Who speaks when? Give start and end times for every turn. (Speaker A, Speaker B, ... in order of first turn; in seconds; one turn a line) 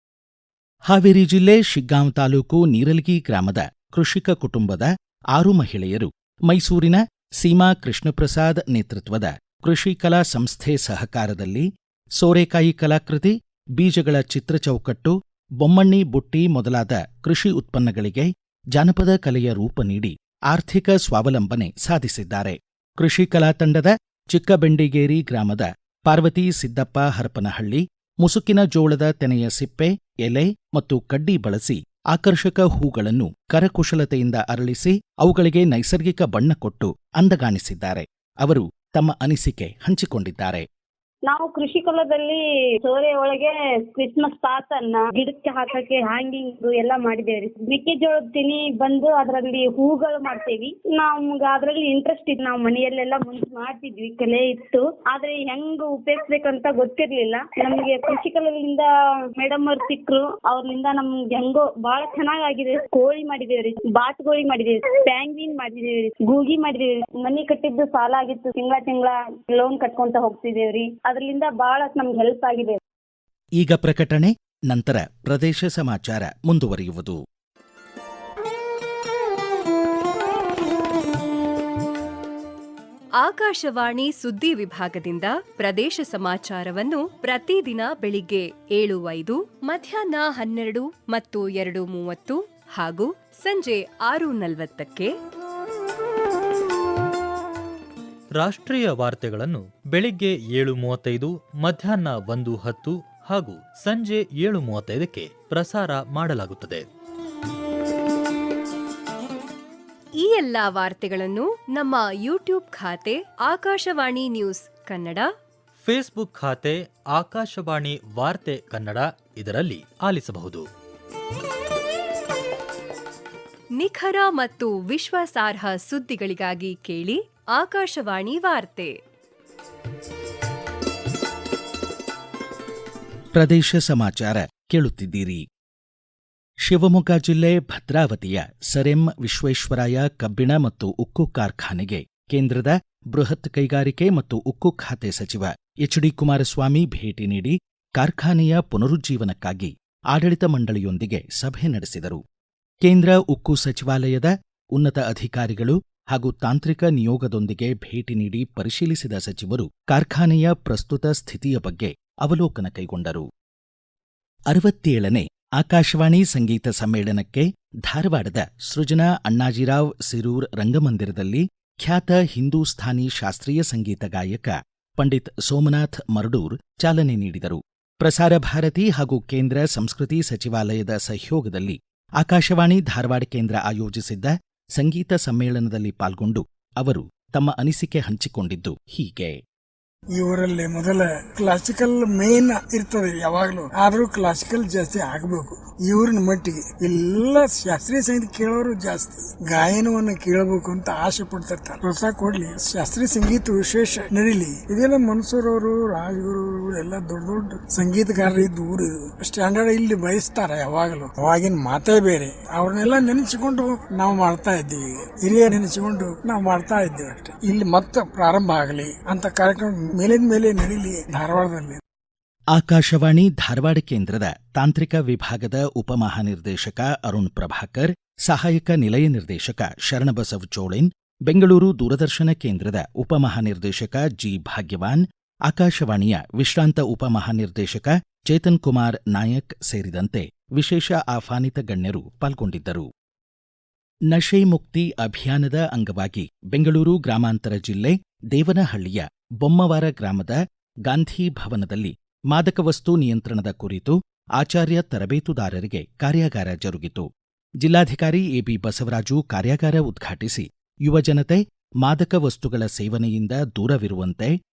Speaker A: 0.9-11.7
Speaker A: 12.2-40.6
Speaker B: 41.2-72.8
Speaker A: 73.6-77.2
Speaker C: 83.2-95.1
Speaker D: 98.4-106.8
Speaker C: 110.2-115.3
Speaker D: 115.8-120.6
Speaker C: 123.8-128.9
Speaker A: 133.3-135.4
Speaker A: 136.7-152.2
Speaker A: 152.8-163.2
Speaker A: 164.5-189.4
Speaker E: 190.2-221.8
Speaker A: 222.6-242.9
Speaker A: 244.1-257.1
Speaker A: 257.6-264.3